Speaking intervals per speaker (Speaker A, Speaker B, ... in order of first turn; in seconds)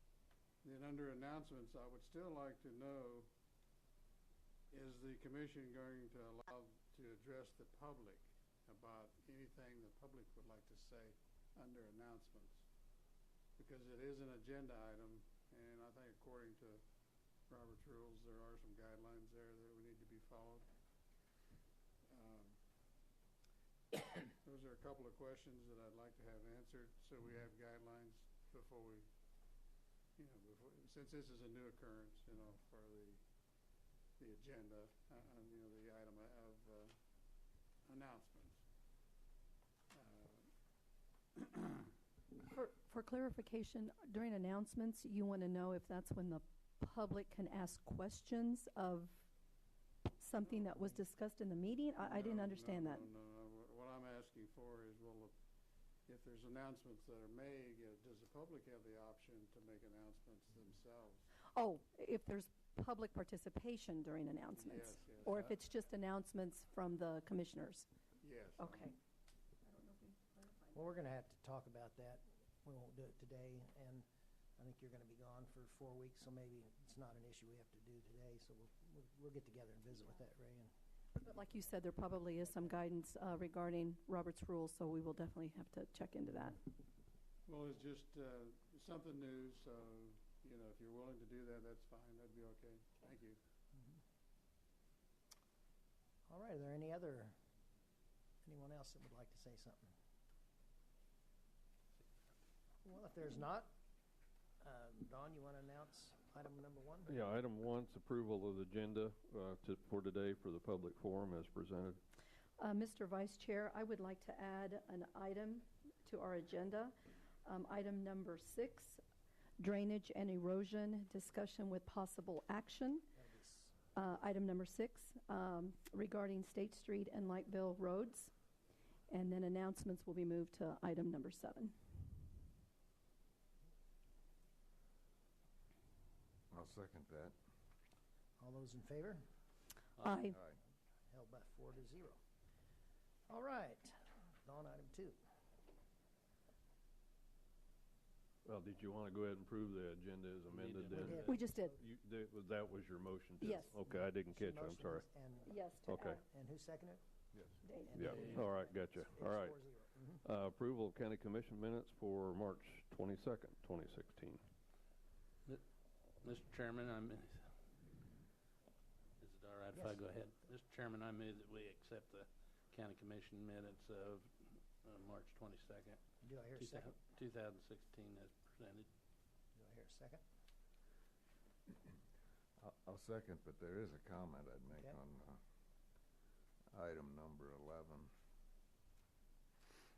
Speaker A: 0.6-3.3, 4.7-12.6, 13.6-16.8, 17.5-20.7, 22.1-22.6, 24.3-29.1, 30.2-33.2, 34.2-37.0, 37.9-38.6, 39.9-40.5, 41.4-41.9, 50.5-50.8, 52.0-55.4, 56.1-61.3, 64.5-65.6, 68.2-69.0, 87.5-93.4
Speaker B: 42.4-49.3, 50.2-53.1, 61.5-67.9, 68.6-69.0, 69.6-70.8, 81.2-86.6, 112.6-119.0, 119.6-123.1, 124.0-128.3, 129.1-131.7, 140.0-140.4, 151.3-151.8, 153.4-153.8, 155.5-156.2, 157.6-158.2
Speaker C: 70.7-74.1, 74.6-80.7, 96.3-97.4, 98.4-99.9, 102.8-103.8, 104.6-107.2, 123.2-123.8, 138.4-139.3, 141.1-142.2, 143.3-145.2, 151.0-151.8, 153.8-157.0, 157.7-160.2, 169.7-170.0, 176.2-177.0, 179.6-180.2, 184.7-185.0
Speaker D: 107.1-112.0, 148.4-155.0, 155.9-156.2, 158.0-159.6, 160.2-164.4
Speaker E: 136.5-137.3, 140.3-140.6, 182.6-185.4, 186.7-188.1
Speaker F: 150.5-151.4, 158.1-158.4, 166.2-167.5, 169.2-176.0, 176.6-178.9